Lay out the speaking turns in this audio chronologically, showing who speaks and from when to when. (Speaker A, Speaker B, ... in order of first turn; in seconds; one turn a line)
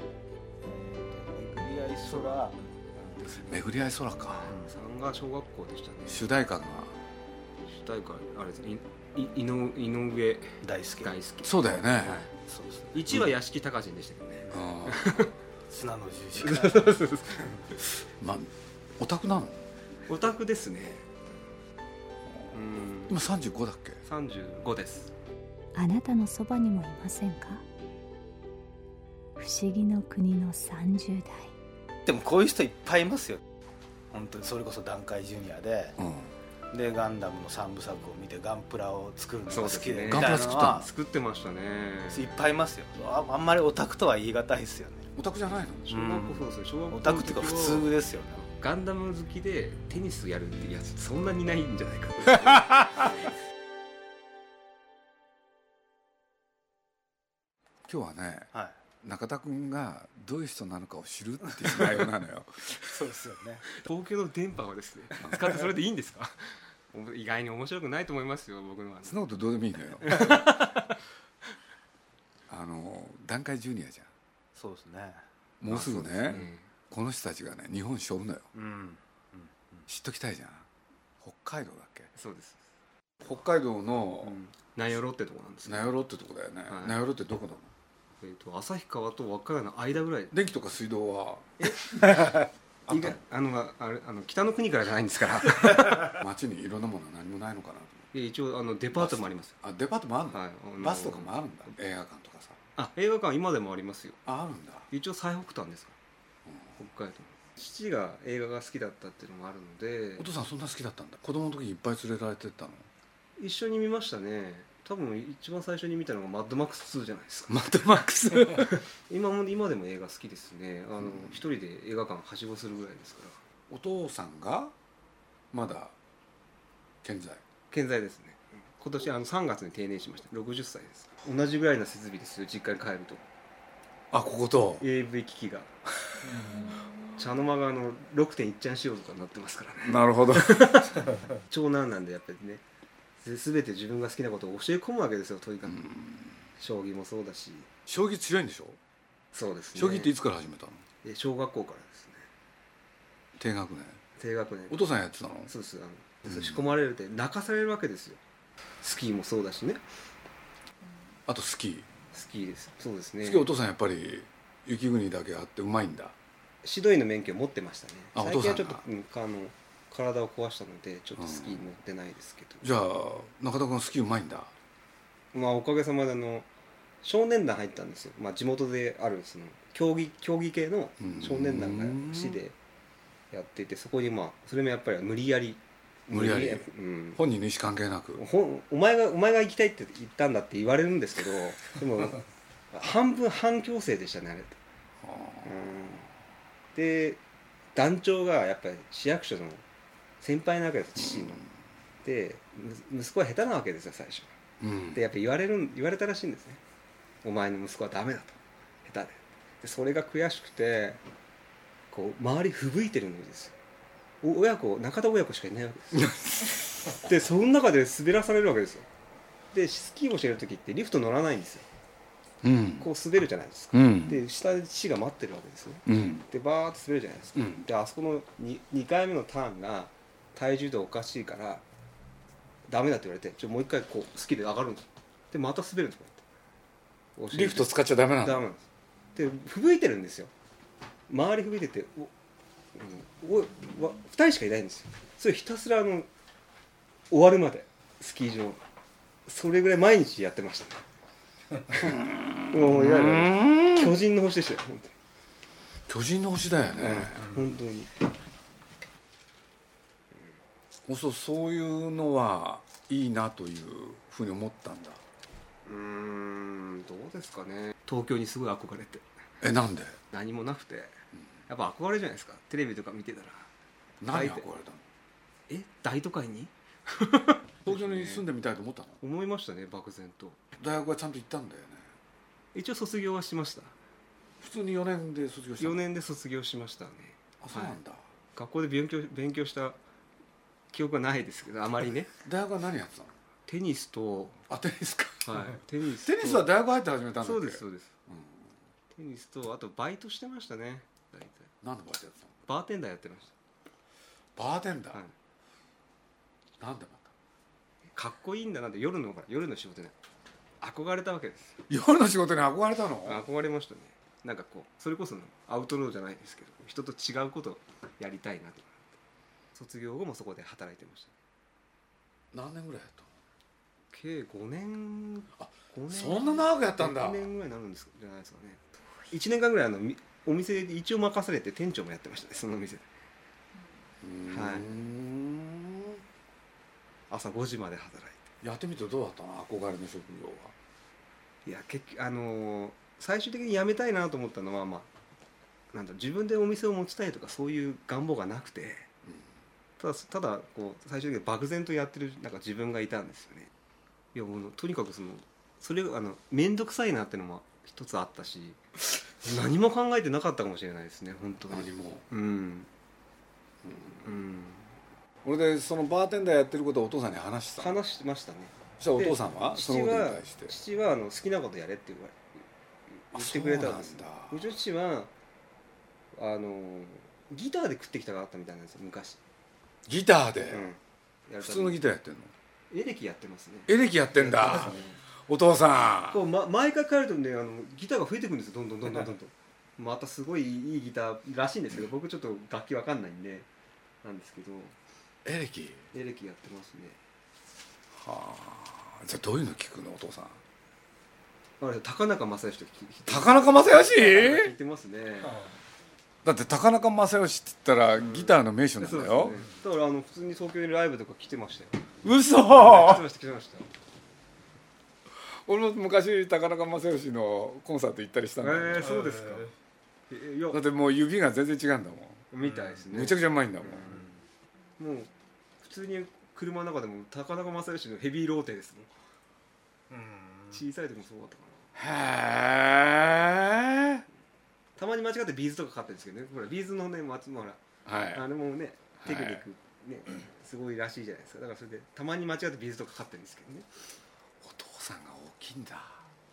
Speaker A: 0.6-3.5
Speaker B: 2.0-2.5
Speaker C: 3.3-4.5
Speaker A: 4.4-4.7
Speaker B: 4.5-6.2
Speaker C: 6.1-7.0
Speaker B: 7.6-12.3
Speaker A: 10.6-11.1
Speaker C: 11.4-12.2
Speaker A: 12.0-13.2
Speaker B: 12.9-15.3
Speaker C: 14.5-15.2
Speaker A: 15.7-16.9
Speaker B: 16.4-17.6
Speaker C: 18.2-19.6
Speaker B: 20.1-21.1
Speaker B: 22.5-23.1
Speaker C: 23.1-24.0
Speaker B: 24.0-25.1
Speaker D: 25.7-27.6
Speaker D: 29.4-31.5
Speaker A: 32.0-33.4
Speaker A: 34.1-36.0
Speaker C: 36.0-36.3
Speaker A: 36.7-40.9
Speaker B: 39.5-42.4
Speaker C: 40.0-40.7
Speaker A: 42.1-45.1
Speaker C: 45.1-45.9
Speaker B: 45.9-47.9
Speaker A: 45.9-48.5
Speaker B: 48.5-53.3
Speaker C: 57.9-62.8
Speaker A: 62.8-63.7
Speaker B: 63.8-69.2
Speaker C: 69.0-70.2
Speaker B: 70.0-71.0
Speaker C: 72.5-74.1
Speaker A: 74.5-75.2
Speaker C: 75.6-78.5
Speaker B: 75.7-76.7
Speaker A: 78.5-79.8
Speaker C: 79.9-80.7
Speaker C: 81.2-82.1
Speaker B: 82.1-82.6
Speaker C: 83.2-84.4
Speaker B: 84.2-85.9
Speaker C: 85.6-87.7
Speaker B: 86.7-87.0
Speaker B: 88.2-90.3
Speaker C: 90.3-92.1
Speaker B: 91.6-92.3
Speaker C: 92.9-93.2
Speaker B: 92.9-96.2
Speaker C: 96.0-97.9
Speaker B: 98.1-99.5
Speaker C: 98.9-102.6
Speaker B: 100.3-101.3
Speaker B: 102.8-104.2
Speaker C: 104.2-104.9
Speaker B: 104.9-106.0
Speaker B: 106.8-110.3
Speaker C: 110.2-112.9
Speaker B: 113.4-117.7
Speaker C: 117.5-118.8
Speaker B: 118.3-123.4
Speaker C: 123.7-124.7
Speaker C: 125.5-125.9
Speaker C: 127.0-127.4
Speaker B: 127.7-133.2
Speaker C: 134.1-134.8
Speaker B: 134.8-135.7
Speaker B: 137.1-142.6
Speaker C: 139.8-140.7
Speaker B: 143.2-145.8
Speaker C: 145.7-146.3
Speaker B: 146.6-147.7
Speaker C: 147.9-148.8
Speaker B: 149.3-150.1
Speaker C: 149.7-150.8
Speaker B: 151.0-152.3
Speaker C: 153.4-154.0
Speaker B: 154.2-154.9
Speaker C: 154.7-155.5
Speaker B: 155.5-158.2
Speaker C: 156.3-156.6
Speaker B: 158.8-159.8
Speaker C: 161.3-161.9
Speaker B: 162.1-163.5
Speaker C: 163.2-166.1
Speaker B: 166.6-172.7
Speaker C: 168.1-168.8
Speaker C: 171.2-171.6
Speaker C: 172.6-174.5
Speaker B: 175.3-176.5
Speaker B: 177.0-182.6
Speaker C: 181.0-182.4
Speaker B: 183.3-187.2
Speaker C: 186.1-188.2
Speaker B: 188.2-194.6
Speaker C: 195.0-195.5
Speaker B: 195.4-196.1
Speaker B: 196.7-197.2
Speaker B: 197.7-199.6
Speaker B: 200.2-201.4
Speaker B: 202.0-204.3
Speaker C: 204.6-205.0
Speaker B: 204.9-206.6
Speaker B: 207.2-211.0
Speaker B: 211.9-213.6
Speaker B: 214.2-216.1
Speaker C: 215.9-216.7
Speaker B: 217.0-218.9
Speaker B: 219.5-221.7
Speaker C: 222.4-222.9
Speaker B: 222.8-231.6
Speaker C: 223.7-224.2
Speaker C: 225.8-226.3
Speaker C: 227.3-227.6
Speaker B: 232.7-236.2
Speaker B: 237.2-240.3
Speaker C: 237.3-238.4
Speaker B: 241.1-242.1
Speaker B: 242.7-246.1
Speaker B: 247.1-248.6
Speaker B: 249.2-250.8
Speaker B: 251.7-252.0
Speaker C: 251.8-253.9
Speaker B: 252.5-254.9
Speaker C: 255.9-257.3
Speaker B: 256.8-257.9
Speaker C: 260.9-265.0
Speaker B: 265.6-269.1
Speaker C: 269.4-270.0
Speaker B: 270.1-270.9
Speaker B: 271.5-273.5
Speaker C: 274.0-274.8
Speaker B: 274.1-274.4
Speaker B: 275.5-278.2
Speaker C: 277.6-279.0
Speaker B: 279.0-280.4
Speaker C: 280.6-281.9
Speaker B: 282.5-283.7
Speaker C: 284.4-285.8
Speaker B: 285.6-287.8
Speaker C: 287.4-288.0
Speaker B: 288.3-289.8
Speaker B: 290.7-292.1
Speaker C: 292.2-293.1
Speaker B: 293.5-294.4
Speaker C: 294.5-298.5
Speaker B: 295.2-296.5
Speaker B: 297.2-297.9
Speaker B: 298.9-301.5
Speaker C: 301.6-302.3
Speaker B: 302.4-303.3
Speaker C: 304.4-305.0
Speaker C: 306.6-307.1
Speaker B: 307.9-309.9
Speaker B: 310.6-311.6
Speaker C: 311.7-313.2
Speaker B: 313.0-318.9
Speaker B: 319.5-321.1
Speaker C: 322.3-323.1
Speaker B: 323.9-332.9
Speaker C: 325.4-327.3
Speaker C: 334.0-336.0
Speaker B: 334.3-334.7
Speaker B: 337.1-338.3
Speaker C: 338.4-340.5
Speaker B: 341.4-344.9
Speaker B: 345.7-348.9
Speaker B: 349.8-353.5
Speaker B: 354.1-358.6
Speaker B: 359.2-362.7
Speaker C: 361.5-362.0
Speaker C: 363.6-364.0
Speaker B: 364.0-364.7
Speaker C: 365.2-367.8
Speaker B: 367.6-372.4
Speaker C: 368.8-370.6
Speaker B: 373.0-375.1
Speaker C: 373.1-374.4
Speaker B: 376.1-379.2
Speaker C: 379.9-380.7
Speaker B: 380.5-381.8
Speaker C: 381.4-382.3
Speaker B: 382.7-385.0
Speaker C: 383.7-386.2
Speaker B: 386.1-393.5
Speaker B: 394.0-394.7
Speaker C: 395.2-395.9
Speaker B: 395.9-397.0
Speaker C: 397.9-400.4
Speaker B: 401.6-405.5
Speaker C: 403.1-404.5
Speaker C: 406.2-409.4
Speaker B: 408.0-411.8
Speaker C: 412.0-413.0
Speaker B: 412.5-413.7
Speaker C: 415.4-418.9
Speaker B: 418.4-419.5
Speaker B: 420.1-420.6
Speaker C: 420.5-422.3
Speaker B: 422.3-424.1
Speaker C: 422.9-423.9
Speaker B: 424.8-428.9
Speaker A: 429.9-430.6
Speaker B: 430.5-431.7
Speaker C: 431.7-434.0
Speaker B: 434.8-437.6
Speaker C: 437.9-438.2
Speaker B: 438.1-443.7
Speaker C: 439.0-439.4
Speaker C: 444.4-446.0